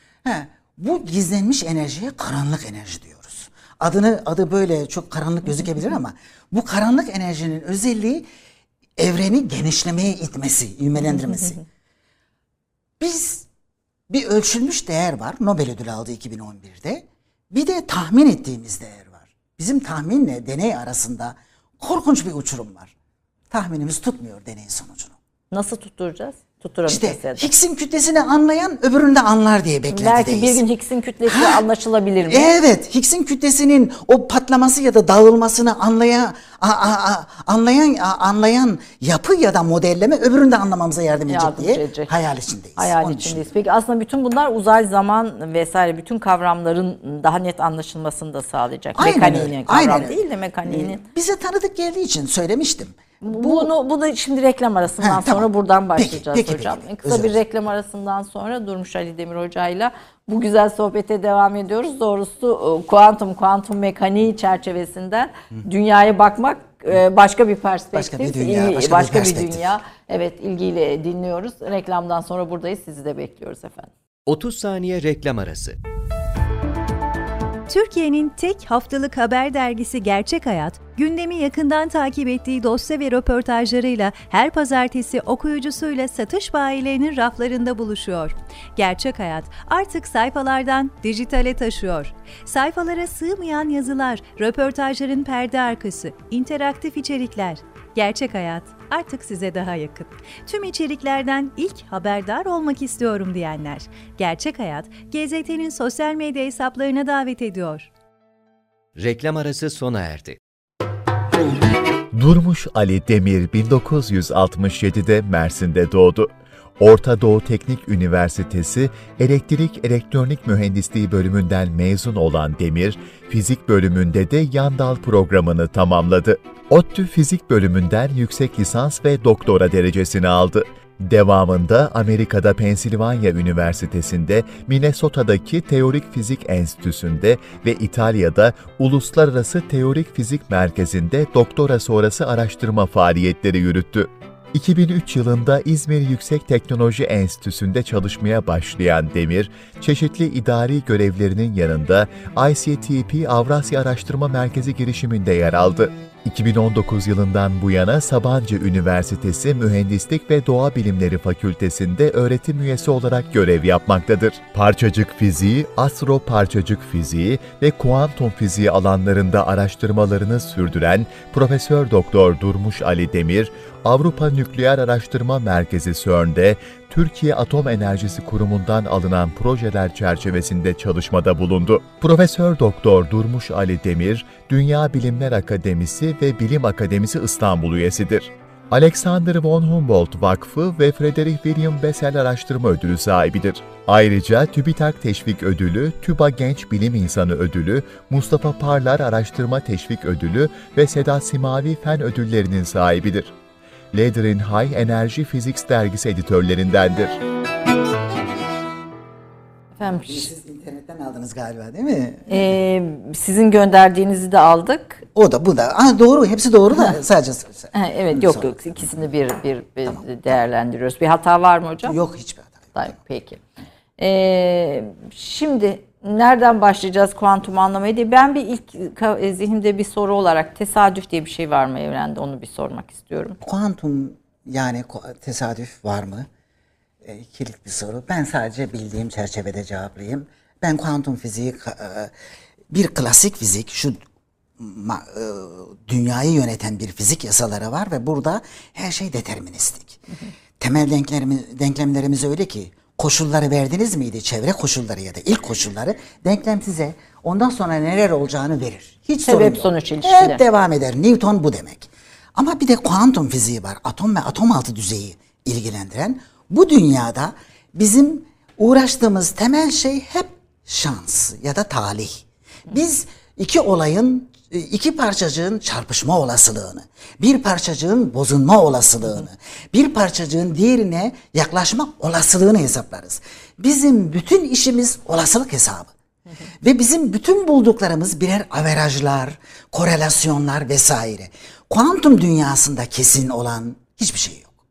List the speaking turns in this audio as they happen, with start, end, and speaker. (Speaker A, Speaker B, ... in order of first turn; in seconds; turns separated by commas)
Speaker A: 0.2-8.2, Speaker A: 9.0-11.6, Speaker A: 13.0-13.5, Speaker A: 14.1-22.9, Speaker A: 23.5-25.1, Speaker B: 25.5-27.5, Speaker A: 26.9-30.6, Speaker B: 29.9-32.5, Speaker A: 31.3-31.6, Speaker A: 32.3-43.5, Speaker B: 41.3-42.1, Speaker B: 42.8-51.0, Speaker A: 48.9-53.7, Speaker B: 53.2-73.9, Speaker A: 55.0-57.4, Speaker A: 67.9-69.6, Speaker C: 74.2-75.8, Speaker D: 77.7-107.9, Speaker C: 109.0-110.4, Speaker E: 112.1-203.3, Speaker E: 203.9-207.2, Speaker B: 209.8-210.3, Speaker A: 210.0-212.4, Speaker B: 212.3-215.0, Speaker A: 215.1-218.9, Speaker B: 217.7-222.0, Speaker A: 221.8-222.8, Speaker B: 222.7-223.4, Speaker B: 224.0-233.4, Speaker A: 233.4-236.3, Speaker A: 237.0-242.1, Speaker A: 242.7-244.0, Speaker A: 244.6-250.0, Speaker A: 250.6-285.9, Speaker B: 259.2-260.4, Speaker A: 286.6-294.5